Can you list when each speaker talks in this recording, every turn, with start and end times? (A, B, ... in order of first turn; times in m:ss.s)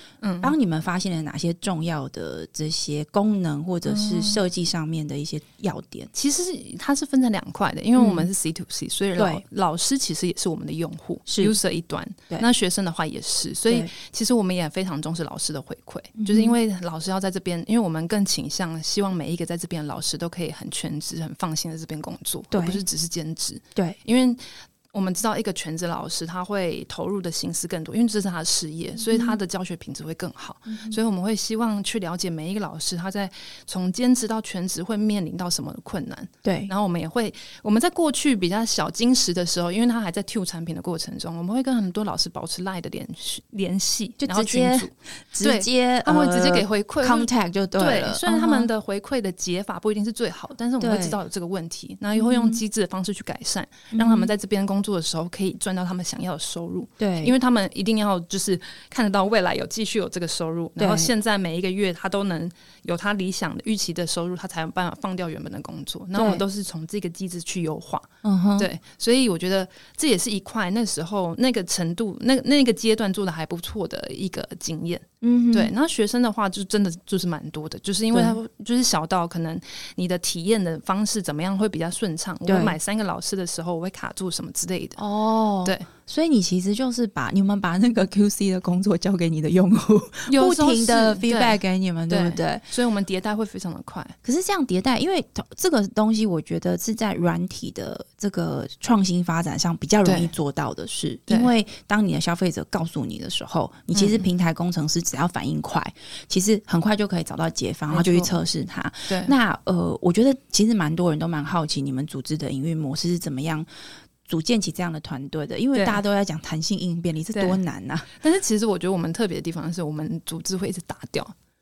0:00.2-0:00.5 A
0:00.4-0:06.1 B
0:03.9-0:04.4 A
0:06.1-1:25.0 A
0:08.0-0:08.3 B
0:09.2-0:09.4 B
0:11.3-0:11.5 B
0:16.2-0:16.6 B
0:22.5-0:22.8 B
0:29.0-0:29.4 B
0:30.7-0:31.0 B
0:36.4-0:36.7 B
0:44.2-0:48.7 B
0:50.8-0:51.2 B
0:52.1-0:52.6 B
0:53.9-0:54.3 B
0:57.0-0:57.3 B
1:00.8-1:01.1 B
1:06.1-1:06.4 B
1:08.2-1:08.7 B
1:15.2-1:15.7 B
1:22.5-1:22.8 B
1:25.0-1:32.6 B
1:30.3-1:34.1 A
1:34.2-1:53.7 B
1:40.0-1:40.3 A
1:41.3-1:41.5 A
1:43.9-1:44.3 A
1:47.9-1:48.3 A
1:49.1-1:49.3 A
1:54.2-1:58.1 B
1:55.7-1:56.0 A
1:57.3-1:57.6 A
1:58.2-2:01.3 A